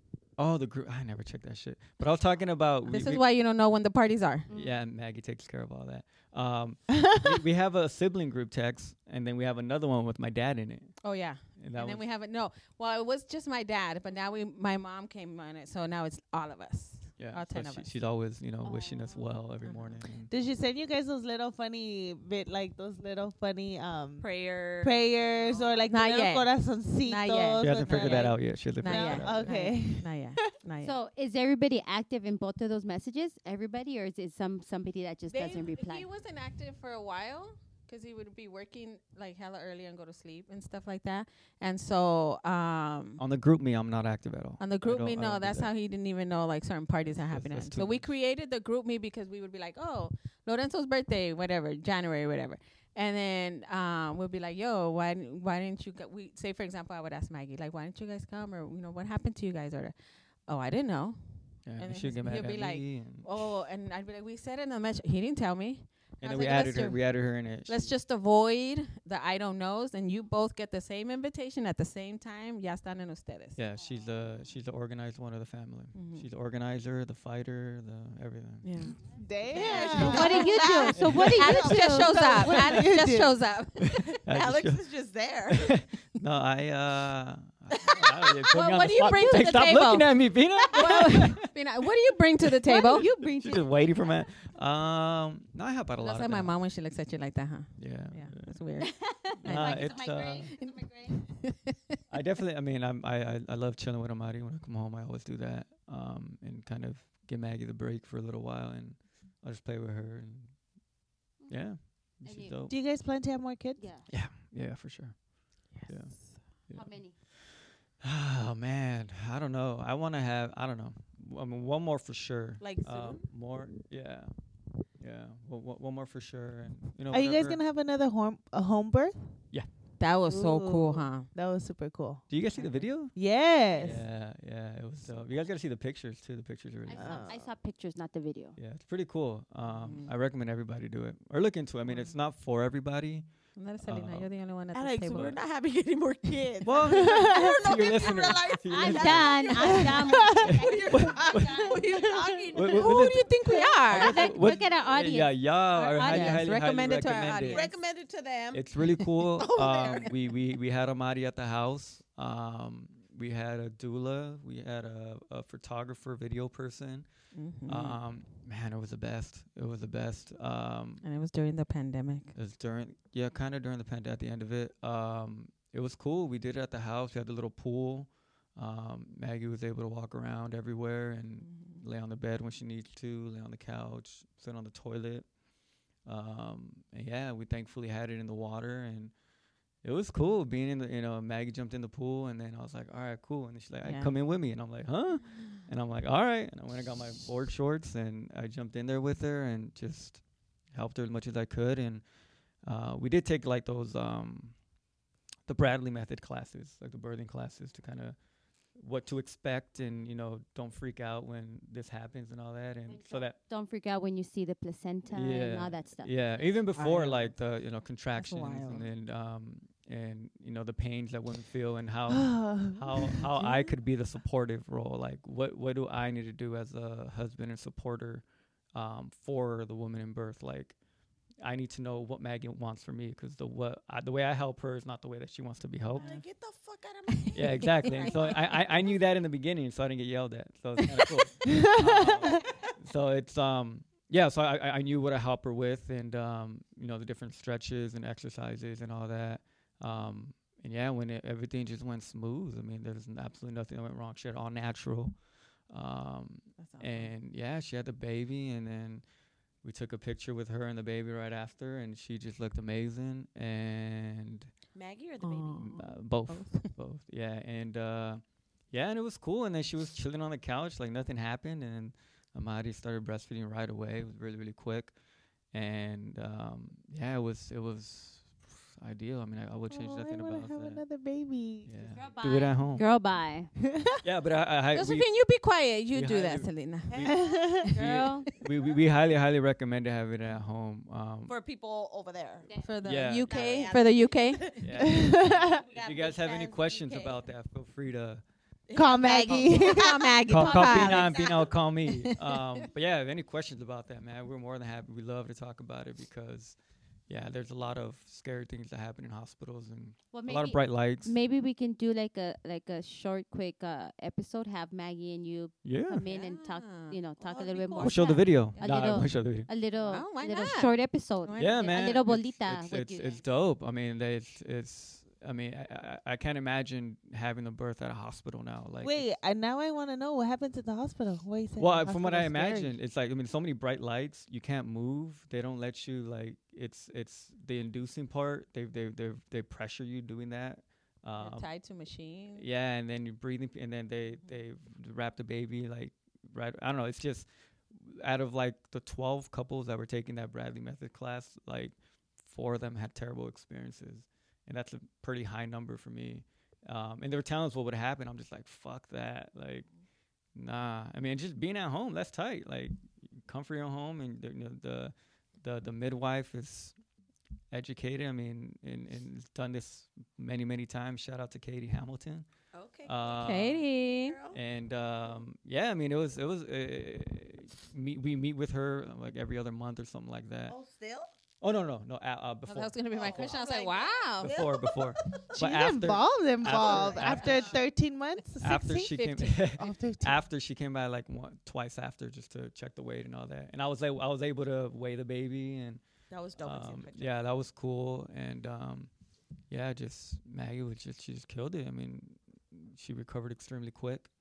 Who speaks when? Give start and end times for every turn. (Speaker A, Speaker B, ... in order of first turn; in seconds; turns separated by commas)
Speaker A: 0.4-3.2, Speaker B: 2.9-4.5, Speaker C: 4.5-4.8, Speaker A: 4.5-11.0, Speaker D: 6.9-7.4, Speaker B: 11.0-17.9, Speaker A: 11.6-12.1, Speaker A: 17.2-20.3, Speaker C: 18.6-19.4, Speaker B: 19.6-20.0, Speaker D: 20.3-30.1, Speaker E: 24.2-25.9, Speaker B: 25.9-30.9, Speaker A: 27.6-29.6, Speaker C: 30.8-36.1, Speaker B: 35.3-43.2, Speaker A: 43.2-45.7, Speaker B: 44.6-59.9, Speaker A: 47.0-48.1, Speaker B: 60.5-73.6, Speaker A: 61.7-63.5, Speaker A: 66.2-68.0, Speaker A: 73.6-78.7, Speaker B: 75.9-76.3, Speaker B: 78.6-79.0, Speaker D: 79.1-80.8, Speaker E: 79.5-82.1, Speaker B: 79.6-80.7, Speaker C: 79.9-82.2, Speaker A: 80.9-81.7, Speaker B: 81.3-84.2, Speaker D: 81.7-83.4, Speaker A: 82.5-82.8, Speaker A: 83.8-84.8, Speaker E: 84.3-85.7, Speaker A: 85.5-91.5, Speaker E: 87.9-88.3, Speaker B: 88.5-90.2, Speaker C: 89.2-89.6, Speaker B: 90.7-93.1, Speaker C: 92.7-94.3, Speaker A: 93.0-96.5, Speaker B: 96.0-101.8, Speaker A: 97.8-98.6, Speaker C: 98.8-101.2, Speaker A: 99.5-100.5, Speaker A: 102.1-110.5, Speaker C: 111.4-112.6, Speaker A: 111.5-112.8, Speaker D: 112.7-113.9, Speaker C: 113.8-114.1, Speaker A: 114.1-115.2, Speaker B: 115.7-116.4, Speaker A: 115.8-116.2, Speaker A: 116.7-124.4, Speaker C: 116.7-117.2, Speaker E: 122.6-123.3, Speaker A: 125.0-127.6, Speaker D: 127.1-129.2, Speaker B: 130.0-131.3, Speaker D: 130.3-132.3, Speaker A: 132.3-133.2, Speaker B: 132.6-132.9, Speaker D: 133.1-134.1, Speaker A: 133.8-137.3, Speaker C: 136.9-138.6, Speaker D: 137.0-137.5, Speaker A: 138.6-143.3, Speaker B: 139.7-140.1, Speaker B: 143.6-145.3, Speaker A: 143.8-144.3, Speaker E: 144.7-153.2, Speaker A: 145.1-145.4, Speaker A: 146.6-149.8, Speaker D: 146.9-147.6, Speaker C: 148.7-151.7, Speaker D: 149.9-152.4, Speaker A: 150.4-151.8, Speaker A: 152.5-157.7, Speaker B: 152.7-154.3, Speaker D: 153.4-153.8, Speaker C: 153.9-156.4, Speaker B: 156.0-157.7, Speaker E: 157.5-158.7, Speaker A: 158.5-167.1, Speaker E: 159.3-160.2, Speaker B: 167.3-168.0, Speaker A: 167.7-171.0, Speaker B: 171.0-172.3, Speaker A: 172.3-185.3, Speaker B: 181.4-181.8, Speaker A: 186.1-189.1, Speaker A: 189.8-202.1, Speaker B: 193.8-194.2, Speaker A: 202.6-204.6, Speaker A: 205.5-208.2, Speaker A: 208.8-213.4, Speaker C: 212.9-216.2, Speaker A: 215.1-230.8, Speaker B: 216.7-217.3, Speaker B: 218.2-218.9, Speaker D: 222.1-223.3, Speaker A: 231.4-236.1, Speaker B: 235.9-236.2, Speaker E: 235.9-238.9, Speaker B: 237.2-238.3, Speaker A: 237.3-255.2, Speaker D: 241.4-242.5, Speaker A: 255.7-259.0, Speaker B: 256.6-257.1, Speaker A: 259.6-264.5, Speaker E: 264.7-265.7, Speaker B: 265.2-266.8, Speaker A: 265.6-274.9, Speaker A: 275.5-280.8, Speaker D: 279.7-281.7, Speaker A: 281.6-282.9, Speaker C: 281.8-283.5, Speaker D: 283.7-284.0, Speaker A: 284.0-285.1, Speaker B: 284.7-287.0, Speaker A: 285.9-287.2, Speaker E: 286.9-287.7, Speaker D: 286.9-287.8, Speaker A: 287.7-291.4, Speaker C: 287.8-288.3, Speaker E: 291.3-292.5, Speaker C: 292.5-292.8, Speaker B: 292.6-294.6, Speaker A: 292.8-293.7, Speaker E: 293.2-297.2, Speaker A: 294.6-298.2, Speaker D: 294.8-295.7, Speaker E: 298.7-301.5, Speaker D: 298.7-299.9, Speaker B: 299.5-301.2, Speaker A: 300.3-306.6, Speaker B: 301.9-302.7, Speaker A: 307.1-311.1, Speaker C: 310.1-323.2, Speaker A: 315.6-316.0, Speaker B: 316.1-317.0, Speaker E: 317.2-318.6, Speaker A: 317.8-319.5, Speaker B: 318.6-319.1, Speaker B: 319.8-321.9, Speaker A: 321.4-329.1, Speaker D: 328.8-332.8, Speaker A: 331.6-341.5, Speaker B: 341.2-342.5, Speaker A: 342.4-359.7, Speaker A: 360.4-366.8, Speaker A: 367.5-372.3, Speaker E: 372.5-374.4, Speaker A: 372.9-373.7, Speaker B: 373.1-374.2, Speaker A: 374.3-380.6, Speaker E: 380.5-381.1, Speaker A: 381.4-383.4, Speaker B: 382.5-384.4, Speaker E: 382.9-385.0, Speaker A: 384.2-387.5, Speaker D: 385.4-390.2, Speaker E: 386.4-387.6, Speaker B: 386.8-387.5, Speaker A: 388.4-395.8, Speaker B: 388.5-389.4, Speaker E: 396.1-397.1, Speaker A: 396.4-398.9, Speaker A: 399.5-404.1